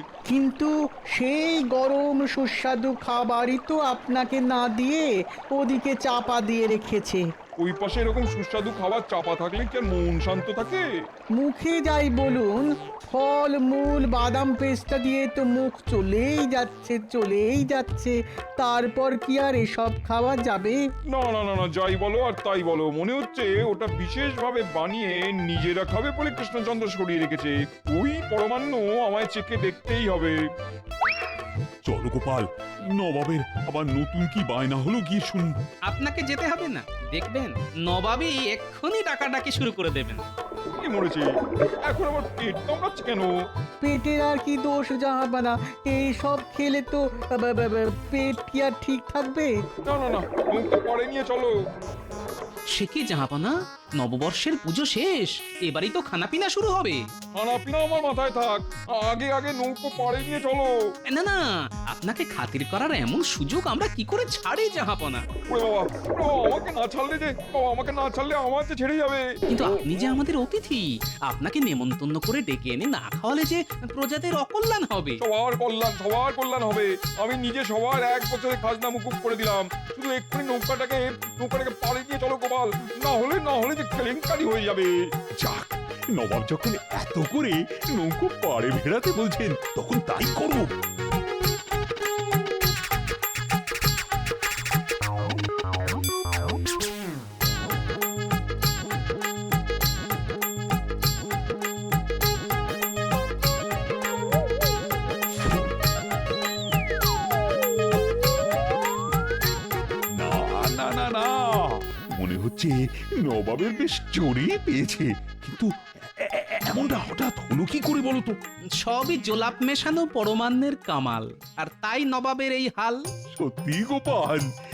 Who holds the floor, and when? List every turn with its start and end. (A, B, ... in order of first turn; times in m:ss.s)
0:00.3-0:07.3 A
0:07.6-0:10.8 B
0:11.4-0:20.8 A
0:21.1-0:30.4 B
0:31.8-0:35.6 C
0:35.9-0:40.2 D
0:40.8-0:41.3 B
0:41.8-0:43.3 B
0:43.8-0:49.6 A
0:49.8-0:51.6 B
0:52.7-0:57.0 D
0:57.3-1:00.8 B
1:01.1-1:05.2 D
1:05.5-1:09.3 B
1:09.5-1:15.2 D
1:15.2-1:24.9 B
1:25.4-1:30.7 C
1:50.2-1:58.4 C
1:58.8-2:03.0 D
2:03.3-2:04.4 C